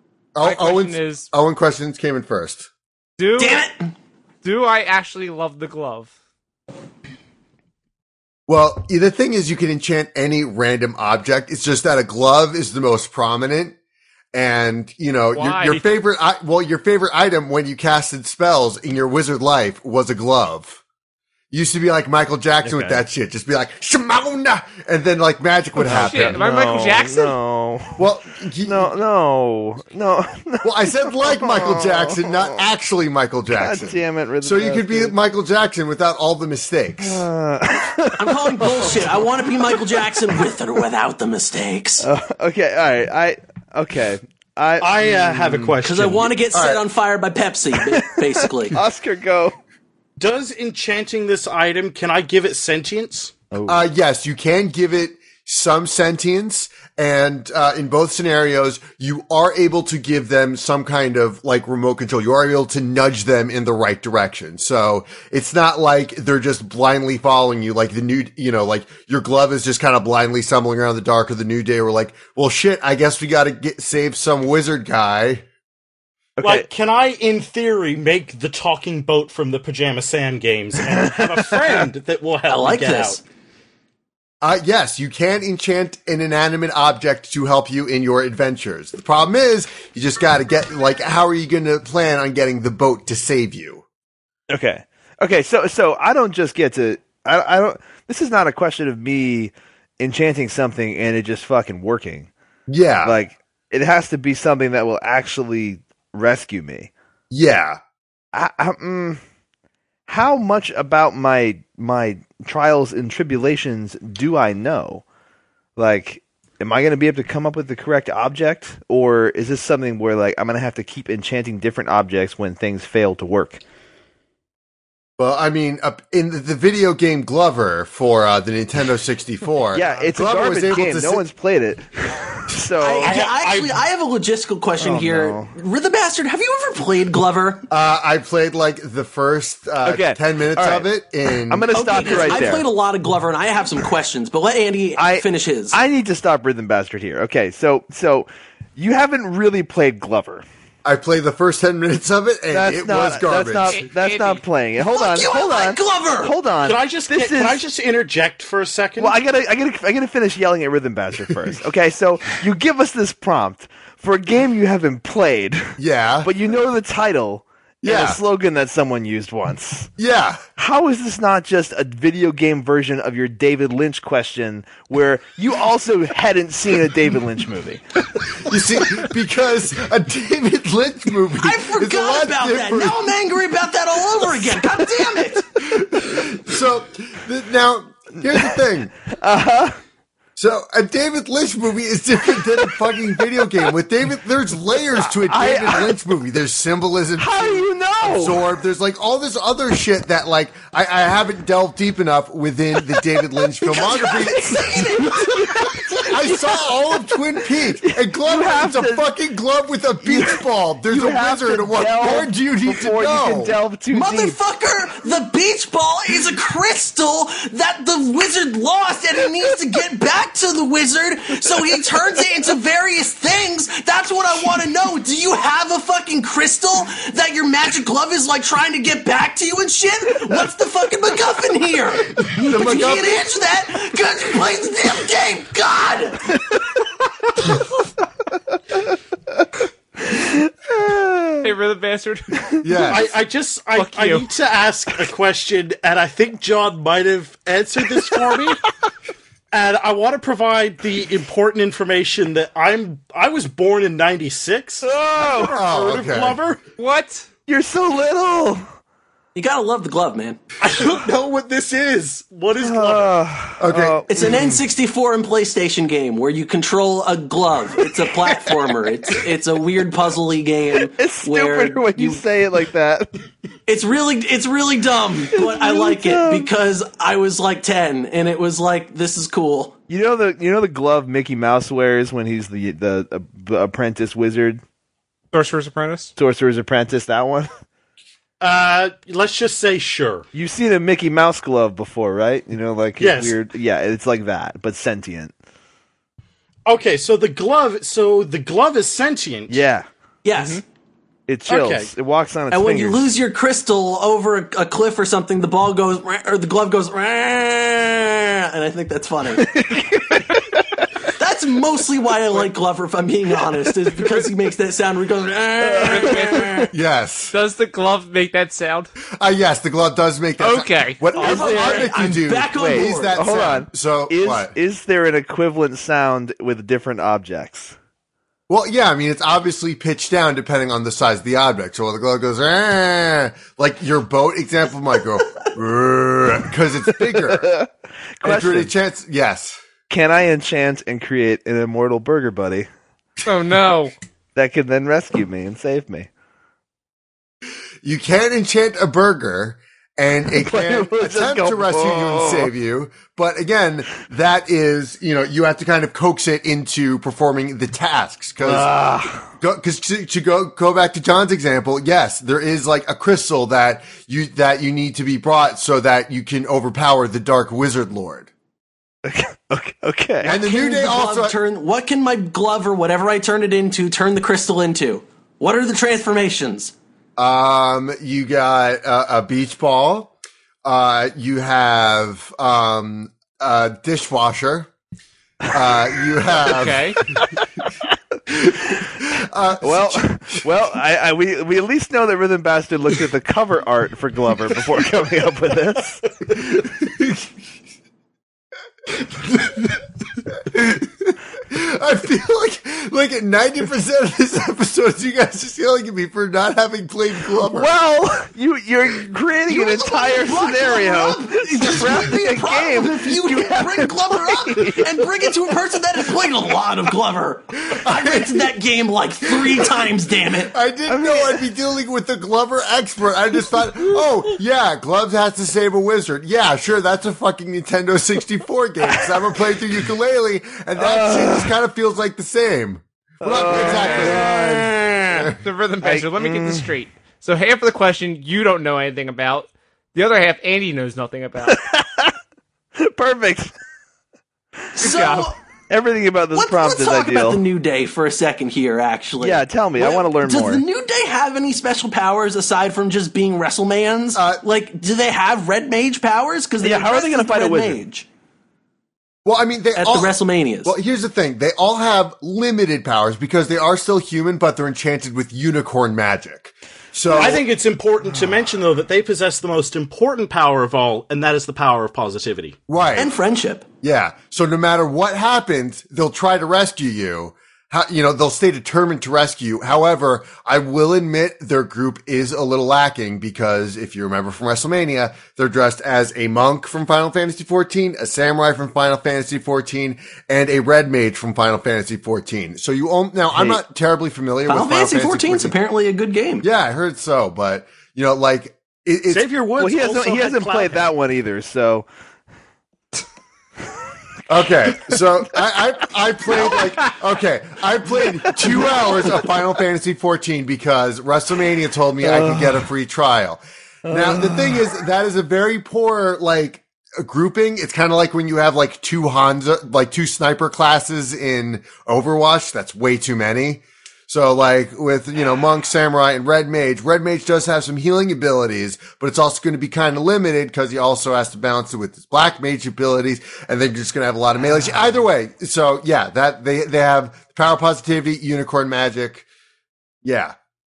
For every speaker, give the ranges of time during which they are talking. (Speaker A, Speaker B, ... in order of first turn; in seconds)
Speaker A: 0.3-2.7, 8.5-13.8, 14.3-20.8, 21.5-26.4, 28.0-28.9, 30.6-37.2, 46.5-46.8, 53.7-75.5, 84.4-93.8, 102.7-103.2, 107.3-107.8, 125.2-131.2, 137.7-142.5, 150.8-153.8, 165.8-166.3, 167.8-168.2, 170.0-170.4, 178.4-183.2, 185.6-188.9, 190.4-205.2, 205.9-213.6, 232.1-233.2, 242.6-243.1, 255.4-256.4, 263.6-264.5, 316.7-317.3, 319.2-324.5, 328.5-337.5, 338.2-339.6, 347.8-358.7, 359.4-368.3, 370.2-371.4, 377.2-384.7, 385.5-387.0, 388.3-390.4, 396.3-397.3, 398.9-399.8, 400.4-407.7, 417.6-418.5, 419.3-419.8, 420.5-435.4, 454.1-454.4, 459.2-467.4, 472.7-473.2, 473.8-495.6, 496.4-499.3, 504.3-539.3, 540.0-540.4
Speaker B: 0.4-1.3, 3.2-3.6, 4.4-6.1, 15.3-15.9, 25.8-27.4, 153.7-154.4, 241.4-242.6, 243.8-244.3, 256.8-257.3, 285.3-286.1, 315.9-316.7, 317.3-318.9, 320.4-321.9, 343.2-343.9, 386.5-387.0, 435.4-441.6, 444.8-445.3
Speaker C: 3.4-3.9, 38.2-42.1, 45.8-48.8, 82.5-83.2, 132.8-137.7, 141.7-145.8, 154.8-156.3, 181.4-185.5, 203.7-205.4, 213.9-236.4, 259.4-260.4, 264.1-272.2, 273.7-279.8, 300.2-300.6, 302.5-309.5, 311.2-316.7, 321.1-323.2, 370.2-376.8, 409.5-420.5, 444.8-445.4, 446.3-458.1, 459.8-460.7, 473.0-473.6, 494.5-496.5
Speaker D: 22.6-23.0, 25.8-28.0, 28.6-32.6, 33.5-35.2, 37.0-40.5, 42.0-45.8, 47.8-49.6, 53.5-53.8, 76.4-76.7, 80.8-81.8, 94.5-102.3, 103.0-106.9, 108.3-109.2, 110.1-115.0, 115.8-123.6, 129.7-133.2, 134.8-135.5, 139.8-142.7, 145.0-150.4, 152.5-157.6, 159.0-169.9, 170.6-178.0, 188.2-189.8, 192.4-192.7, 195.0-196.0, 197.2-198.4, 202.8-209.1, 210.0-214.4, 240.0-241.5, 247.9-248.4, 254.8-255.6, 257.5-258.6, 262.6-264.6, 268.1-268.7, 270.9-273.1, 275.3-276.5, 279.9-284.6, 286.2-287.5, 290.3-295.3, 299.5-300.6, 301.3-303.1, 309.4-310.9, 315.6-316.7, 322.6-327.8, 336.9-337.7, 338.2-338.7, 339.9-342.7, 344.4-346.1, 350.3-352.5, 358.4-359.3, 369.1-370.4, 389.6-396.1, 407.4-415.6, 420.9-421.5, 428.8-429.2, 430.8-431.6, 433.2-434.9, 435.8-436.7, 441.4-442.1, 442.8-443.5, 445.7-447.4, 449.2-450.6, 456.6-457.8, 493.3-493.6, 499.6-501.9, 508.3-509.2, 512.0-512.7, 513.9-514.7
Speaker E: 44.8-46.4, 50.2-53.3, 76.4-83.2, 133.0-133.8, 156.6-159.2, 242.9-248.7, 249.5-256.6, 260.6-263.2, 288.4-290.3, 293.0-293.4, 296.7-299.6, 301.5-301.9, 467.1-472.6, 499.1-500.9